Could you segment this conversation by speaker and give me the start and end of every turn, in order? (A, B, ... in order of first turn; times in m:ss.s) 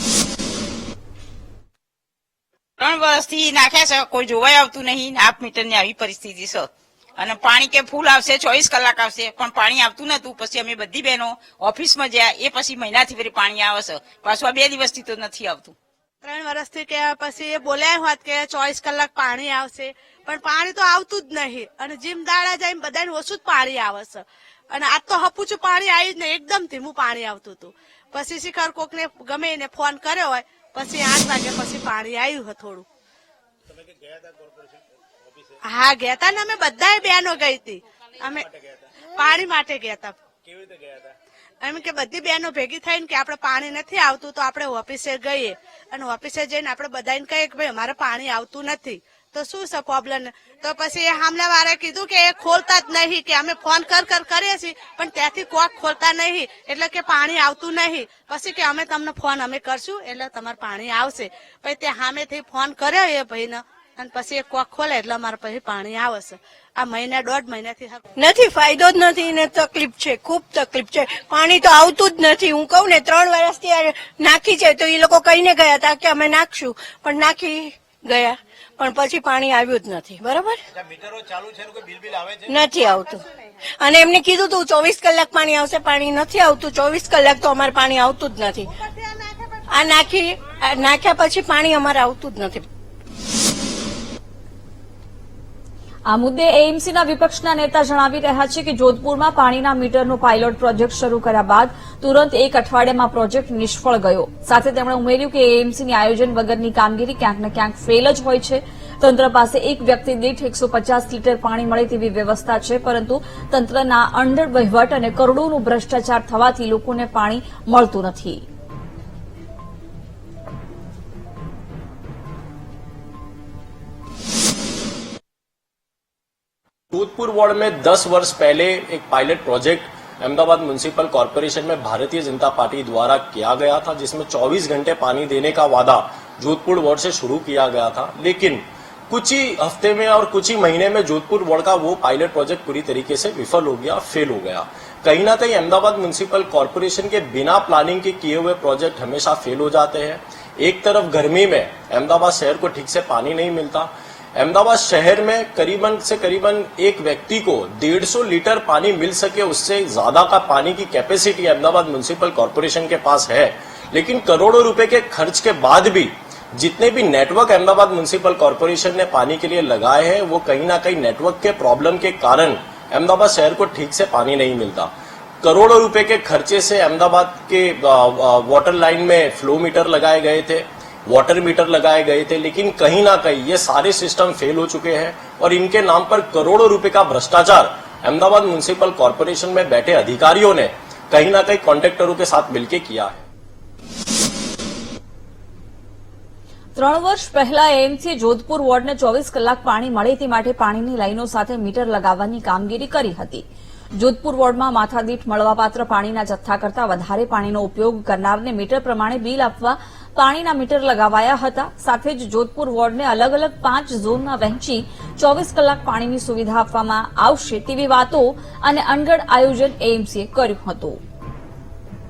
0:02.8-0:15.8 A
0:16.2-0:32.8 B
0:33.7-0:34.8 C
0:35.7-0:38.4 B
0:38.5-0:38.9 C
0:39.1-0:40.2 B
0:40.4-0:41.2 C
0:41.6-1:08.0 B
1:08.2-1:20.6 D
1:20.7-1:22.6 C
1:22.5-1:23.2 D
1:23.8-1:28.7 D
1:28.8-1:30.0 B
1:29.7-1:32.6 D
1:36.1-1:58.4 E
2:06.9-2:54.9 F
2:55.4-3:13.2 F
3:16.8-3:23.4 E
3:24.0-3:41.0 E